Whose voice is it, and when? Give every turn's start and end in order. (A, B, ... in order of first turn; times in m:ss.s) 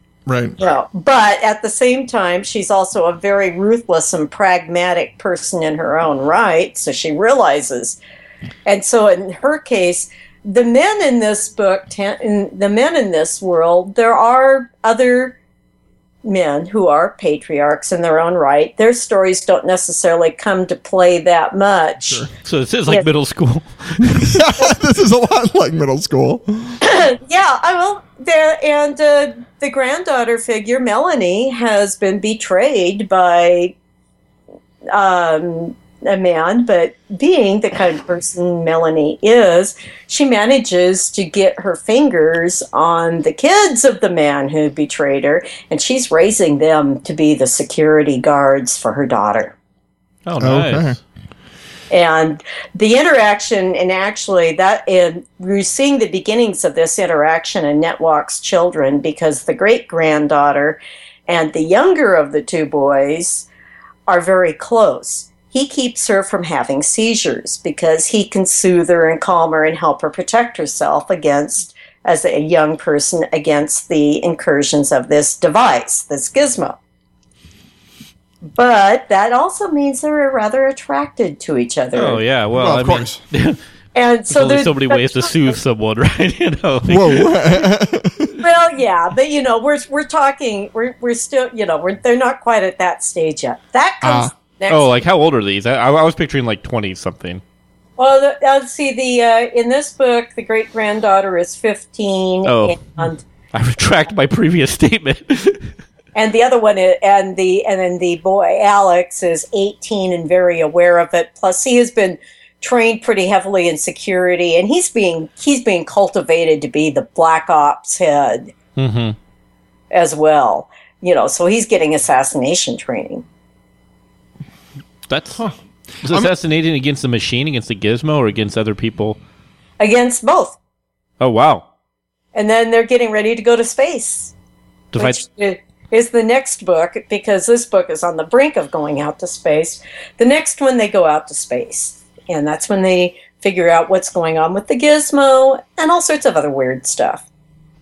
0:00.2-0:00.6 A
0:00.6-0:08.0 B
0:08.6-0:15.4 B
0:16.2-0:22.3 B
0:22.4-0:24.3 C
0:24.0-0:26.8 A
0:26.8-0:33.7 B
0:34.9-0:49.5 B
0:50.2-0:51.0 C
0:50.4-0:51.0 A
0:51.9-1:03.5 B
1:04.1-1:16.8 B
1:18.5-1:22.2 B
1:21.9-1:23.6 C
1:22.5-1:23.2 A
1:23.9-1:25.6 B
1:24.3-1:27.6 C
1:26.9-1:28.3 A
1:28.4-1:34.9 B
1:34.0-1:34.3 A
1:34.7-1:37.4 C
1:38.0-1:43.2 B
1:42.4-1:42.8 C
1:43.5-1:45.7 C
1:46.1-1:58.5 B
1:58.8-1:59.2 C
1:59.9-2:03.2 B
2:05.1-2:05.5 C
2:06.0-2:09.2 C
2:06.0-2:06.3 A
2:09.8-2:10.6 B
2:11.2-2:11.6 C
2:12.3-2:14.3 B
2:14.9-2:15.2 C
2:15.0-2:27.2 B